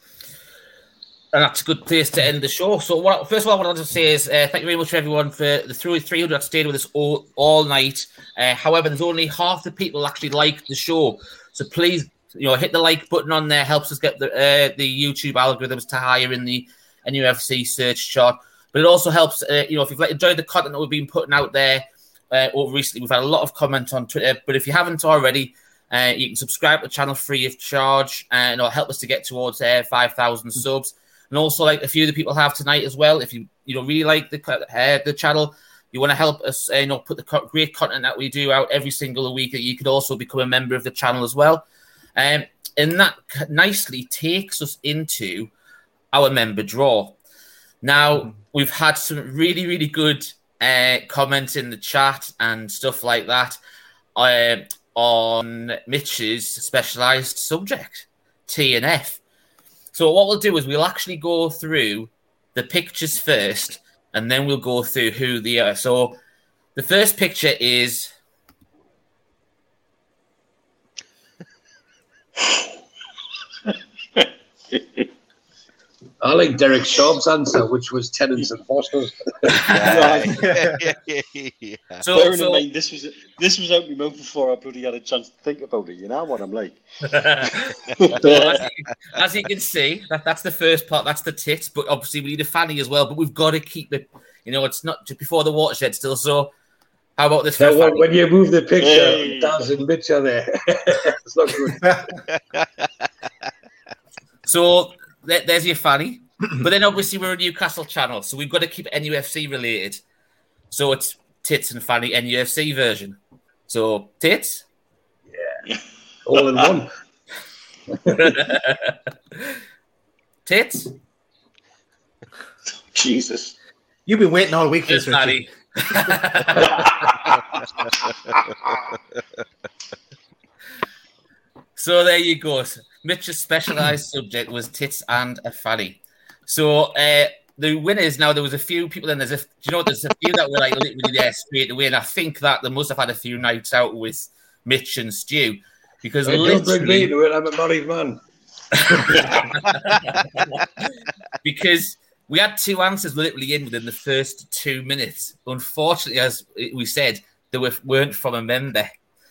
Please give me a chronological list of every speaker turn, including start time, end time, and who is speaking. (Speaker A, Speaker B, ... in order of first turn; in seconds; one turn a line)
Speaker A: 1.3-41.6
Speaker A: 42.1-45.5
Speaker A: 46.1-47.2
Speaker A: 47.8-53.6
Speaker A: 54.1-59.2
Speaker A: 59.9-66.2
Speaker A: 66.8-68.1
Speaker B: 74.2-75.1
Speaker C: 76.2-79.7
Speaker D: 79.7-82.0
Speaker B: 79.7-80.4
Speaker E: 80.4-80.8
Speaker A: 82.0-82.6
Speaker B: 82.1-86.8
Speaker A: 87.0-96.5
Speaker B: 87.4-88.6
Speaker A: 97.2-98.1
Speaker C: 97.5-102.0
Speaker B: 98.8-99.6
Speaker A: 104.5-110.0
Speaker A: 110.7-114.6
Speaker C: 115.3-115.6
Speaker C: 116.2-116.9
Speaker B: 116.3-116.7
Speaker C: 117.9-118.4
Speaker A: 118.2-119.0
Speaker A: 120.5-120.9
Speaker B: 122.9-123.5
Speaker E: 124.1-126.2
Speaker A: 124.9-126.9
Speaker B: 126.8-127.3
Speaker A: 131.8-147.1
Speaker C: 146.2-148.2
Speaker C: 148.8-149.3
Speaker A: 149.6-150.2
Speaker A: 151.4-158.9